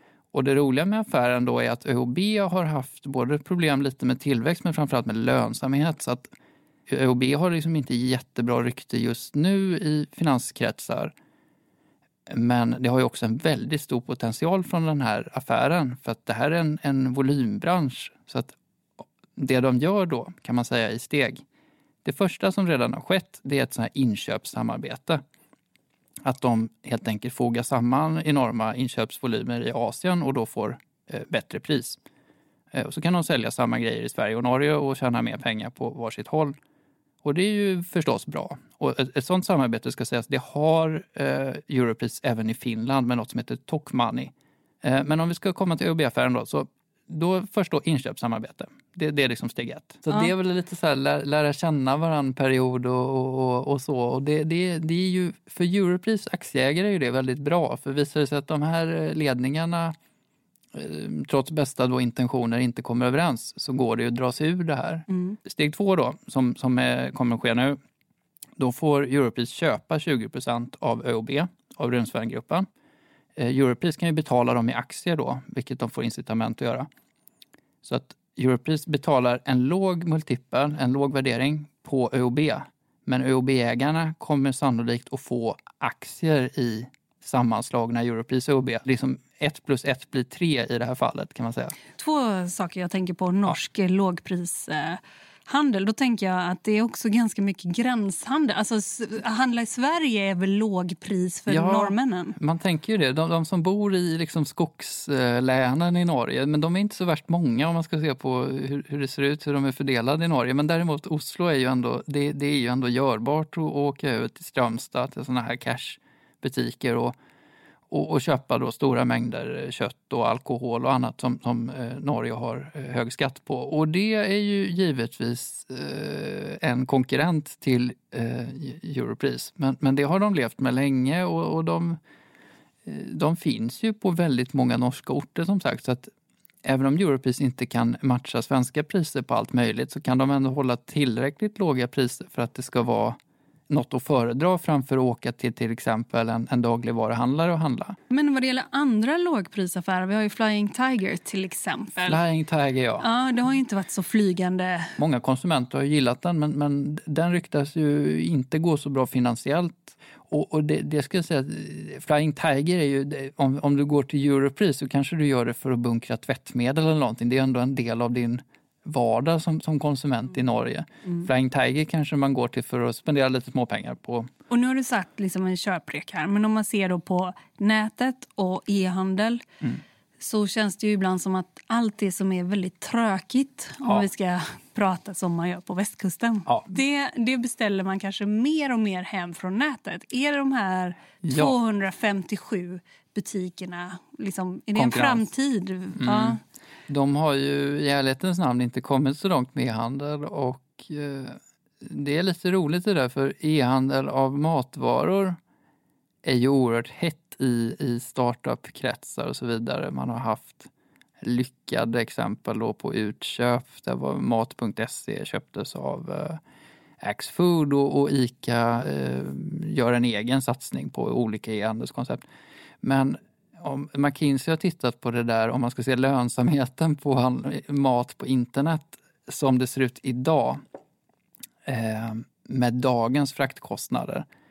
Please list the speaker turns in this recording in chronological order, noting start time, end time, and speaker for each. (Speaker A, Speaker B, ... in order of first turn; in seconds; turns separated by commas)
Speaker A: 0.3-6.3, Speaker A: 6.9-11.1, Speaker A: 12.3-18.6, Speaker A: 19.3-21.4, Speaker A: 22.0-25.2, Speaker A: 26.2-32.0, Speaker A: 32.7-36.6, Speaker A: 37.2-59.9, Speaker A: 60.7-67.8, Speaker B: 65.1-65.4, Speaker A: 68.6-72.7, Speaker A: 73.3-76.9, Speaker A: 77.8-91.7, Speaker B: 92.0-102.3, Speaker A: 101.5-117.2, Speaker A: 117.9-132.0, Speaker A: 132.8-136.1, Speaker A: 136.6-148.0, Speaker B: 148.1-152.2, Speaker A: 152.0-153.1, Speaker B: 153.0-155.0, Speaker A: 155.0-174.3, Speaker B: 174.5-179.4, Speaker B: 180.2-196.4, Speaker A: 186.4-186.7, Speaker A: 191.2-191.6, Speaker A: 194.7-195.2, Speaker A: 195.9-205.4, Speaker A: 206.2-210.7, Speaker A: 211.2-216.4, Speaker A: 217.0-222.2, Speaker A: 222.8-230.6, Speaker A: 231.6-234.3